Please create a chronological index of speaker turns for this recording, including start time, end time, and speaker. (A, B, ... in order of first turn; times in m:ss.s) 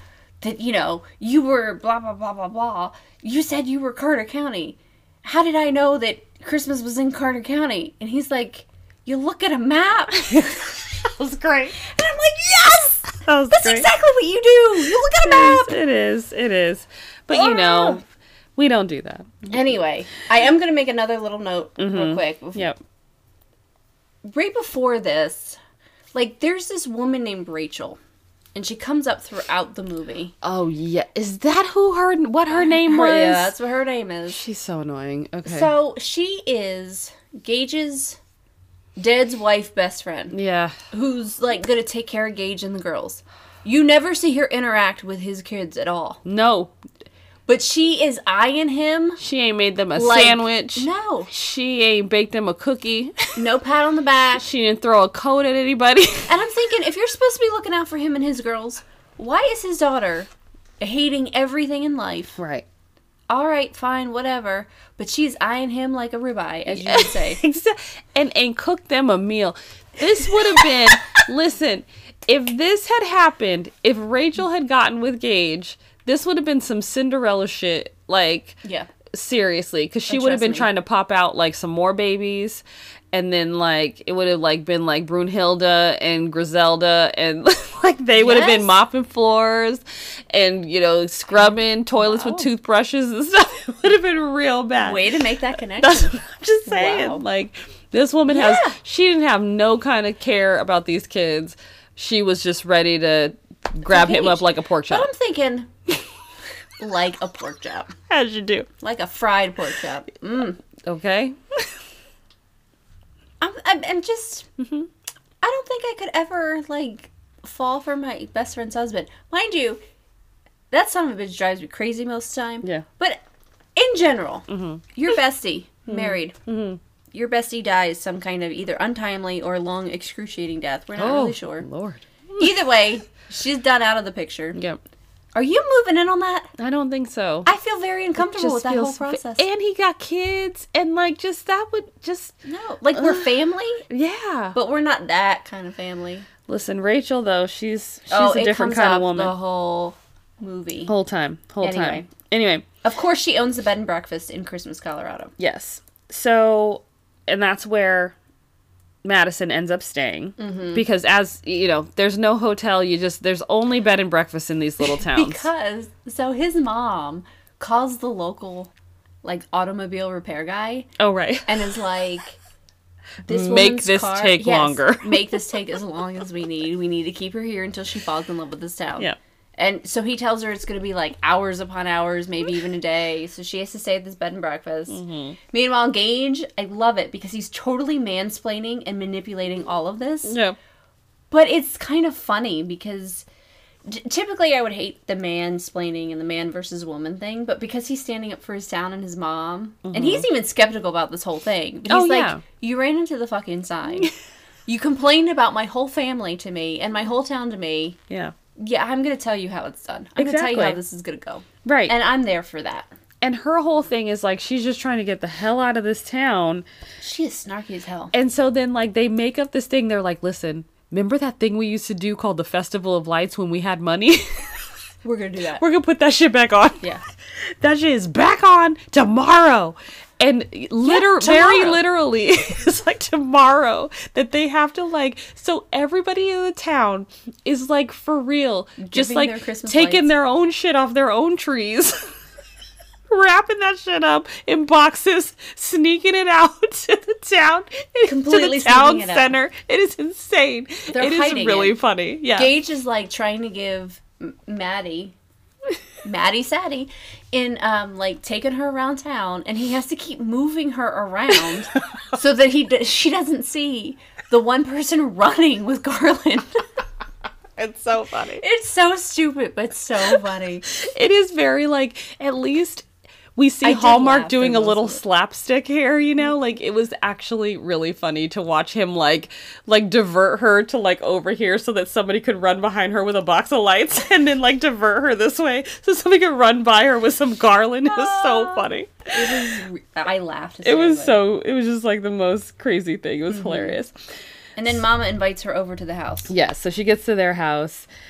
0:00.4-0:10.8 A
0:11.0-0:11.8 B
0:11.8-0:15.8 A
0:13.2-0:13.9 B
0:14.8-0:18.0 B
0:17.3-0:18.0 A
0:18.6-0:19.5 B
0:19.5-0:22.7 A
0:21.8-0:22.8 B
0:24.2-0:25.6 A
0:26.1-0:28.0 A
0:28.6-0:30.3 A
0:30.4-0:33.6 B
0:32.5-0:34.4 A
0:34.3-0:35.7 B
0:35.4-0:38.2 A
0:39.0-0:40.4 A
0:40.3-0:40.8 B
0:40.9-0:46.2 A
0:46.2-0:46.7 B
0:47.5-0:49.2 A
0:49.2-0:53.4 B
0:50.0-0:51.3 A
0:53.4-0:54.5 A
0:54.4-0:56.3 B
0:56.3-1:02.4 A
1:02.4-1:02.6 B
1:03.3-1:07.4 A
1:06.7-1:18.6 B
1:18.6-1:18.9 A
1:19.1-1:35.1 B
1:20.1-1:20.7 A
1:28.2-1:28.8 A
1:31.4-1:32.5 A
1:34.8-1:37.2 A
1:35.8-1:45.1 B
1:38.3-1:38.8 A
1:43.9-1:45.7 A
1:46.8-1:48.0 A
1:48.1-1:48.7 B
1:48.8-1:50.6 A
1:50.8-1:51.8 B
1:53.4-1:54.5 A
1:54.6-1:54.9 B
1:55.4-1:59.8 A
2:00.7-2:03.2 A
2:03.8-2:06.4 A
2:04.5-2:04.8 B
2:05.9-2:06.8 B
2:07.1-2:11.7 A
2:11.0-2:12.5 B
2:12.4-2:14.6 A
2:15.4-2:16.5 A
2:16.6-2:17.5 B
2:17.4-2:19.5 A
2:18.2-2:22.4 B
2:22.4-2:23.9 A
2:22.9-2:23.3 B
2:23.9-2:24.6 B
2:24.5-2:26.3 A
2:26.5-2:29.3 B
2:28.1-2:30.9 A
2:30.9-2:32.6 B
2:31.6-2:32.1 A
2:32.8-2:35.3 A
2:35.4-2:38.2 B
2:39.0-2:45.5 B
2:40.4-2:40.8 A
2:44.8-2:48.7 A
2:49.2-2:50.9 A
2:51.0-2:51.8 B
2:51.5-2:52.4 A
2:53.2-3:05.0 A
2:53.3-2:55.4 B
3:04.9-3:05.4 B
3:05.5-3:10.4 A
3:10.3-3:10.6 B
3:11.3-3:13.2 A
3:13.9-3:24.1 A
3:19.9-3:20.3 B
3:21.9-3:22.4 B
3:24.7-3:28.0 A
3:28.6-3:32.9 A
3:30.2-3:30.8 B
3:31.6-3:31.9 B
3:33.2-3:36.7 B
3:37.0-3:38.1 A
3:38.1-3:44.6 B
3:45.0-3:45.6 A
3:45.6-4:02.1 B
3:50.8-3:51.8 A
3:58.8-4:00.1 A
4:03.1-4:12.5 B
4:08.0-4:09.4 A
4:10.9-4:11.8 A
4:12.4-4:15.2 A
4:16.0-4:26.5 A
4:27.6-4:28.4 B
4:28.4-4:30.7 A
4:30.7-4:49.6 B
4:33.6-4:35.0 A
4:47.9-4:51.2 A
4:50.6-4:53.9 B
4:53.3-4:53.8 A
4:54.6-4:56.3 A
4:56.3-4:57.9 B